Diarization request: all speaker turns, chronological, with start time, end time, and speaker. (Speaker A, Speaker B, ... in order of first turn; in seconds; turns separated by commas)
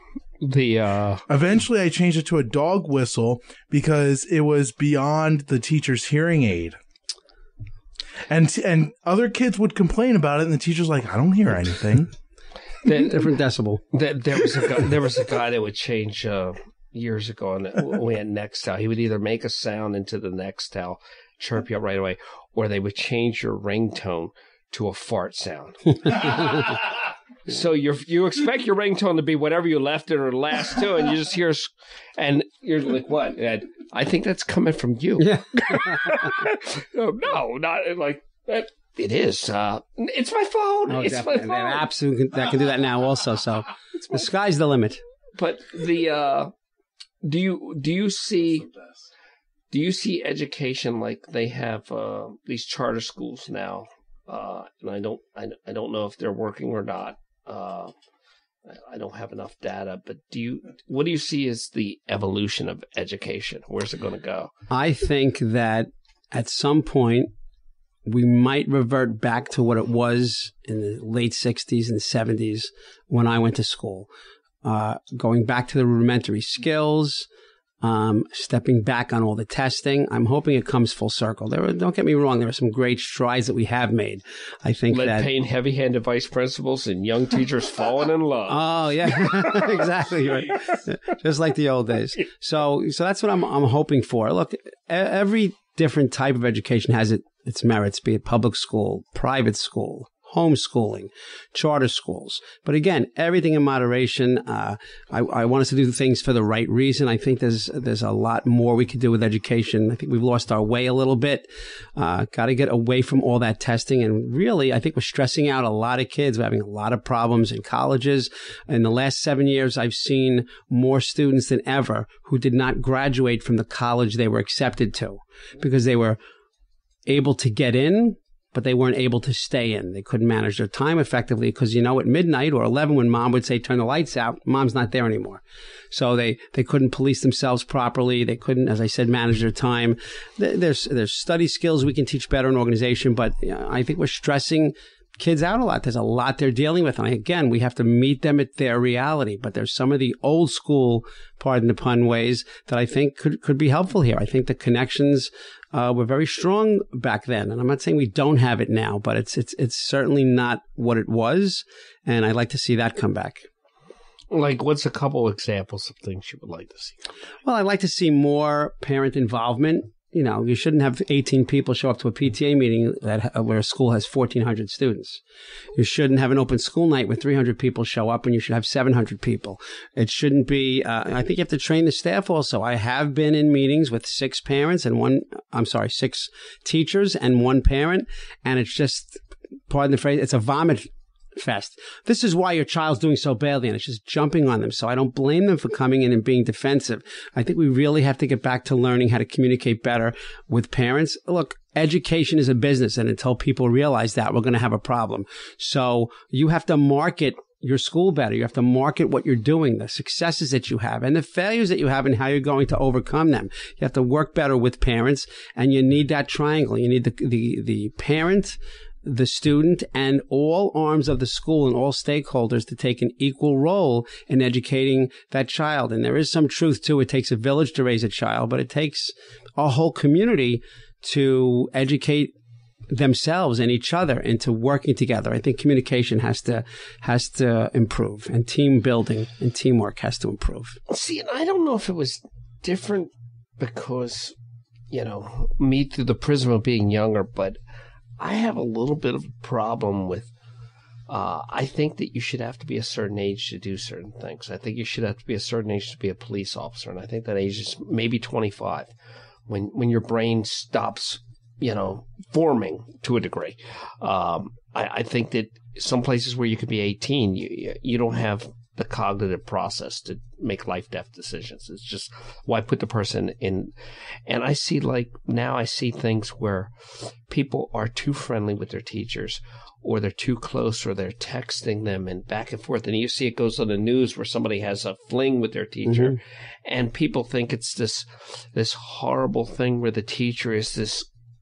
Speaker A: 0.4-1.2, Speaker B: 1.3-6.8, Speaker B: 8.3-12.1, Speaker A: 12.8-13.3, Speaker C: 12.9-13.8, Speaker A: 13.9-41.9, Speaker C: 35.2-36.3, Speaker C: 40.9-45.0, Speaker A: 45.4-46.5, Speaker A: 47.2-48.7, Speaker A: 49.7-57.9, Speaker A: 58.6-64.5, Speaker C: 64.7-67.3, Speaker C: 68.0-74.1, Speaker C: 74.6-77.3, Speaker C: 77.8-85.3, Speaker A: 84.9-89.9, Speaker C: 88.5-126.2, Speaker C: 127.1-163.5, Speaker A: 164.3-167.1, Speaker C: 167.4-175.2, Speaker C: 175.7-232.3, Speaker C: 232.9-240.8, Speaker A: 240.9-244.3, Speaker A: 244.9-247.6, Speaker A: 248.2-250.3, Speaker A: 251.1-258.9, Speaker A: 259.5-273.7, Speaker A: 274.3-291.1, Speaker C: 285.9-286.1